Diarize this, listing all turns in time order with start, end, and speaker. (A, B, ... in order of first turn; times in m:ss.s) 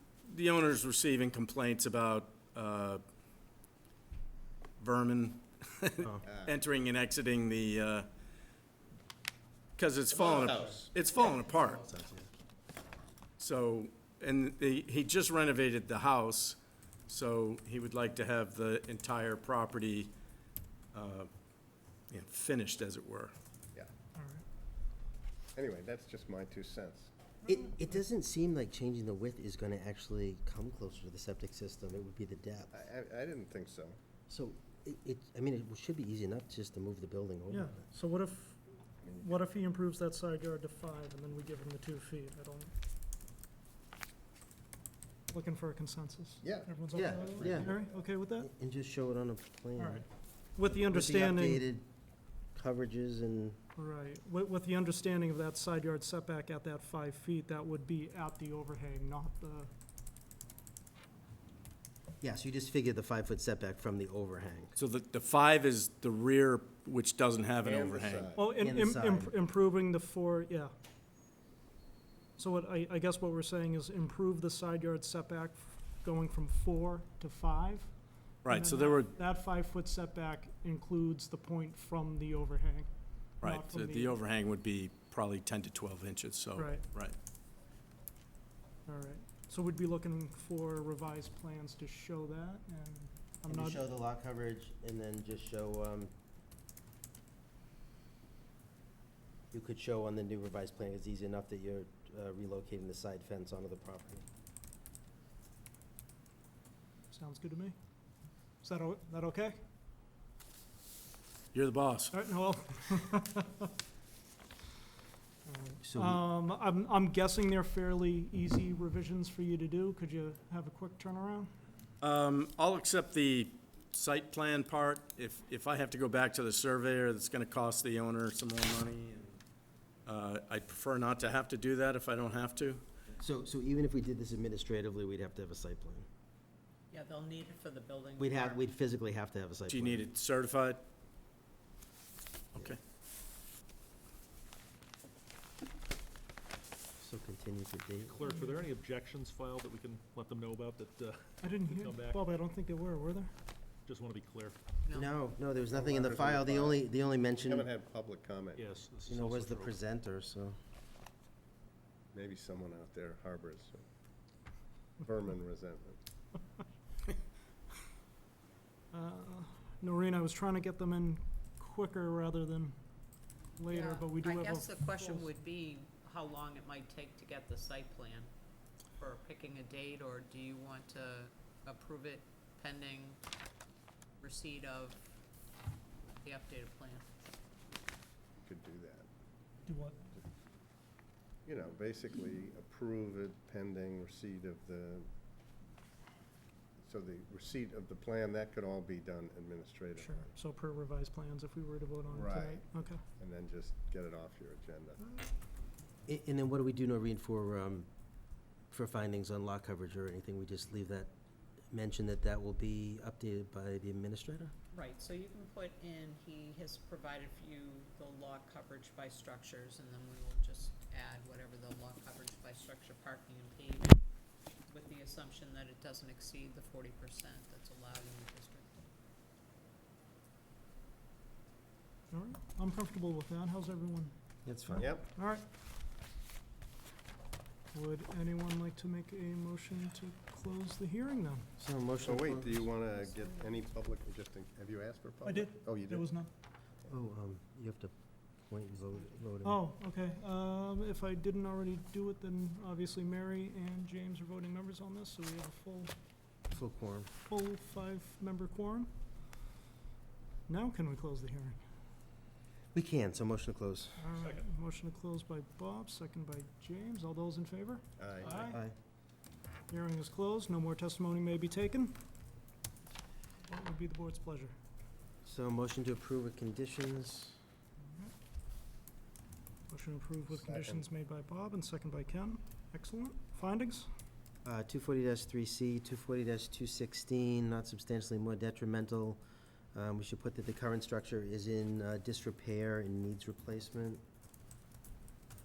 0:00.3-0:03.0 A
0:04.8-0:08.1 A
0:06.2-0:06.5 B
0:09.8-0:11.8 A
0:11.6-0:12.3 C
0:13.4-0:20.1 A
0:20.9-0:21.3 A
0:22.1-0:23.3 A
0:24.2-0:24.4 D
0:25.6-0:27.1 B
0:27.4-0:27.9 D
0:27.5-0:32.7 C
0:32.7-0:34.0 B
0:34.3-0:37.8 C
0:37.5-0:42.7 D
0:39.0-0:39.4 B
0:45.3-0:48.5 D
0:46.4-0:47.8 B
0:46.9-0:47.8 C
0:48.4-0:50.0 C
0:49.8-0:51.6 D
0:50.7-0:51.8 C
0:52.6-0:53.6 C
0:53.8-0:59.7 D
1:02.2-1:04.8 C
1:04.8-1:08.3 A
1:07.6-1:08.4 B
1:08.4-1:10.7 D
1:08.5-1:09.3 C
1:12.4-1:24.2 D
1:18.4-1:19.2 A
1:23.4-1:27.2 A
1:26.6-1:26.8 D
1:28.9-1:33.8 D
1:33.5-1:36.1 C
1:39.5-1:44.2 C
1:47.1-1:47.8 D
1:48.6-1:49.6 D
1:51.5-1:52.1 A
1:52.1-1:53.7 D
1:55.5-2:01.5 D
1:55.8-1:56.2 C
2:02.0-2:09.4 A
2:10.1-2:12.8 A
2:13.2-2:16.1 C
2:16.9-2:18.6 E
2:18.2-2:20.0 C
2:19.7-2:20.9 A
2:27.0-2:28.2 C
2:28.1-2:32.2 F
2:28.2-2:28.7 D
2:31.4-2:33.3 D
2:33.8-2:34.6 F
2:34.8-2:35.1 E
2:34.9-2:37.7 C
2:35.7-2:36.8 B
2:37.4-2:38.6 B
2:38.6-2:39.7 F
2:39.1-2:40.6 C
2:42.1-2:43.8 B
2:45.0-2:46.0 B
2:48.9-2:52.8 D
2:53.6-2:55.3 D
2:53.7-2:58.3 E
2:59.0-3:03.2 E
3:04.2-3:05.1 E
3:06.1-3:07.1 E
3:08.4-3:09.1 B
3:09.7-3:10.0 D
3:11.5-3:15.1 B
3:16.8-3:20.3 B
3:20.0-3:23.0 D
3:22.1-3:22.6 B
3:23.2-3:25.0 B
3:26.1-3:27.9 C
3:28.7-3:31.1 C
3:31.7-3:34.5 C
3:34.7-3:44.0 E
3:44.7-3:48.8 E
3:52.1-3:55.4 D
3:54.4-3:55.0 C
3:57.7-4:01.5 D
4:01.6-4:02.7 C
4:02.0-4:06.1 B
4:05.2-4:06.3 D
4:06.9-4:07.9 C
4:08.5-4:09.6 C
4:09.4-4:15.9 D
4:16.5-4:17.1 C
4:17.2-4:18.9 D
4:20.5-4:21.6 D
4:22.7-4:24.1 C
4:24.0-4:28.6 D
4:28.0-4:28.4 B
4:28.3-4:28.8 C
4:29.7-4:32.0 D
4:33.5-4:34.6 D
4:35.2-4:37.4 C
4:39.7-4:43.9 D
4:40.3-4:40.8 B
4:44.4-4:49.2 C
4:49.7-4:54.0 C